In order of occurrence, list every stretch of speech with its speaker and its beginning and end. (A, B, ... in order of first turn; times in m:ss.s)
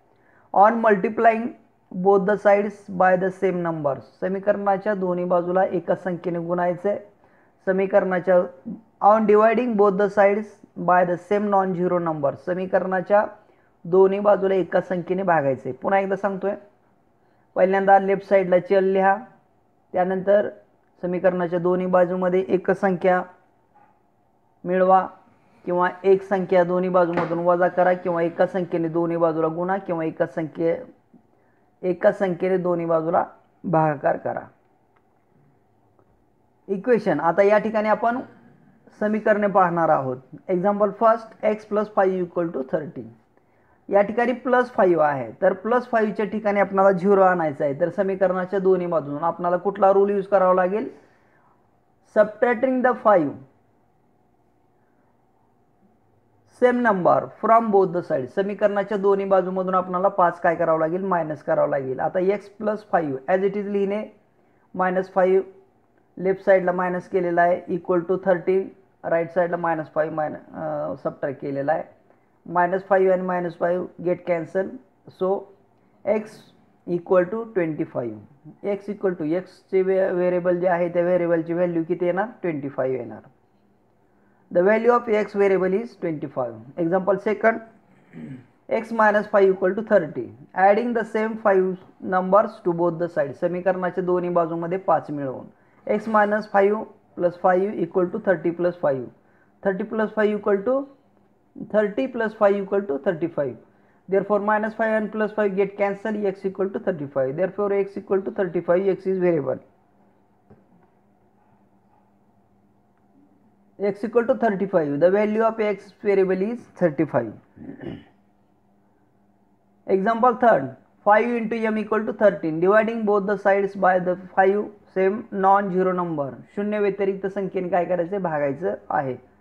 0:00.5-0:07.0 A
0:07.6-0:13.3 A
0:13.9-0:16.6 A
0:17.6-0:19.2 A
0:19.9-0:23.3 A
0:24.6-0:25.1 A
0:25.6-0:30.8 A
0:31.8-0:34.5 A
0:36.7-0:38.2 A
0:38.9-0:43.1 A
0:43.9-0:50.9 A
0:52.1-0:53.4 A
0:56.5-1:04.1 A
1:04.7-1:05.5 A
1:06.2-1:11.9 A
1:12.5-1:15.5 A
1:16.1-1:23.3 A
1:24.5-1:27.6 A
1:28.7-1:39.1 A
1:39.6-1:40.9 A
1:41.7-1:49.6 A
1:53.8-1:58.0 A
1:59.9-2:09.2 A